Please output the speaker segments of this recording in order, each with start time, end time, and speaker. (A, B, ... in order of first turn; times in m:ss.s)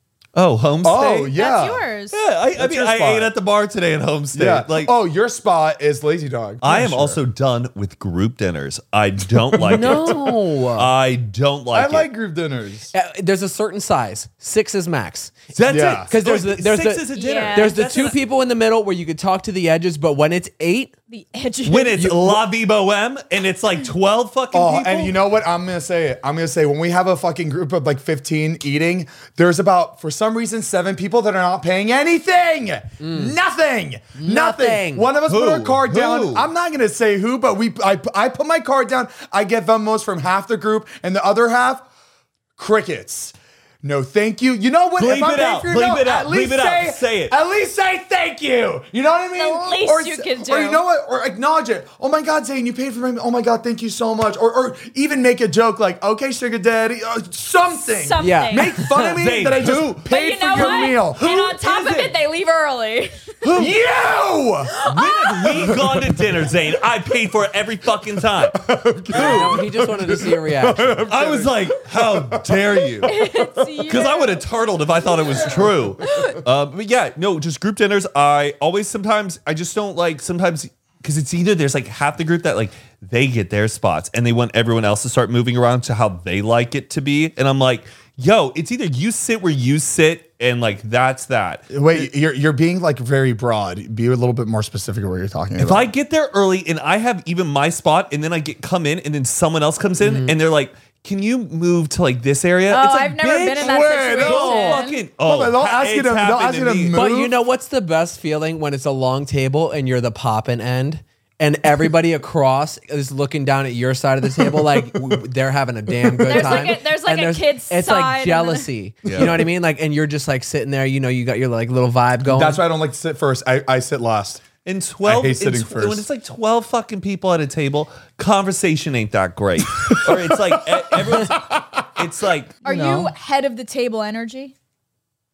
0:00.4-0:01.3 A
0:00.8-0:01.8 B
0:01.3-0:02.2 C
0:02.1-0:04.9 A
0:02.6-0:03.3 B
0:04.3-0:07.2 B
0:06.6-0:12.1 A
0:09.6-0:10.9 D
0:11.7-0:12.9 B
0:12.9-0:15.4 D
0:15.5-0:18.2 A
0:15.7-0:16.1 B
0:16.1-0:20.9 D
0:17.1-0:17.9 C
0:21.1-0:22.0 C
0:21.6-0:25.2 A
0:22.0-0:22.4 D
0:24.5-0:41.8 B
0:33.0-0:33.3 D
0:34.2-0:35.1 D
0:35.3-0:36.5 A
0:42.6-1:02.1 B
0:45.0-0:47.3 A
0:49.4-0:50.8 C
0:57.8-0:58.8 C
0:58.2-0:59.2 D
0:59.1-1:00.0 A
1:00.0-1:03.3 C
1:00.6-1:00.9 A
1:03.4-1:04.8 B
1:04.8-1:05.8 C
1:04.8-1:09.6 A
1:05.4-1:06.2 B
1:08.5-1:13.4 B
1:09.1-1:10.9 D
1:11.1-1:13.1 A
1:13.0-1:14.5 C
1:13.9-1:31.8 A
1:15.1-1:16.4 C
1:15.5-1:16.3 B
1:31.7-1:35.9 B
1:35.6-1:47.0 A
1:40.0-1:40.4 D
1:42.7-1:45.0 C
1:43.6-1:47.4 B
1:46.9-2:02.6 D
1:54.6-1:55.2 B
1:55.9-1:56.6 B
1:56.2-1:58.7 C
1:59.0-1:59.4 A
1:59.1-1:59.4 B
2:02.2-2:04.4 B
2:04.6-2:12.5 A
2:05.0-2:06.0 B
2:09.8-2:11.9 B
2:12.6-2:13.1 B
2:12.6-2:14.5 C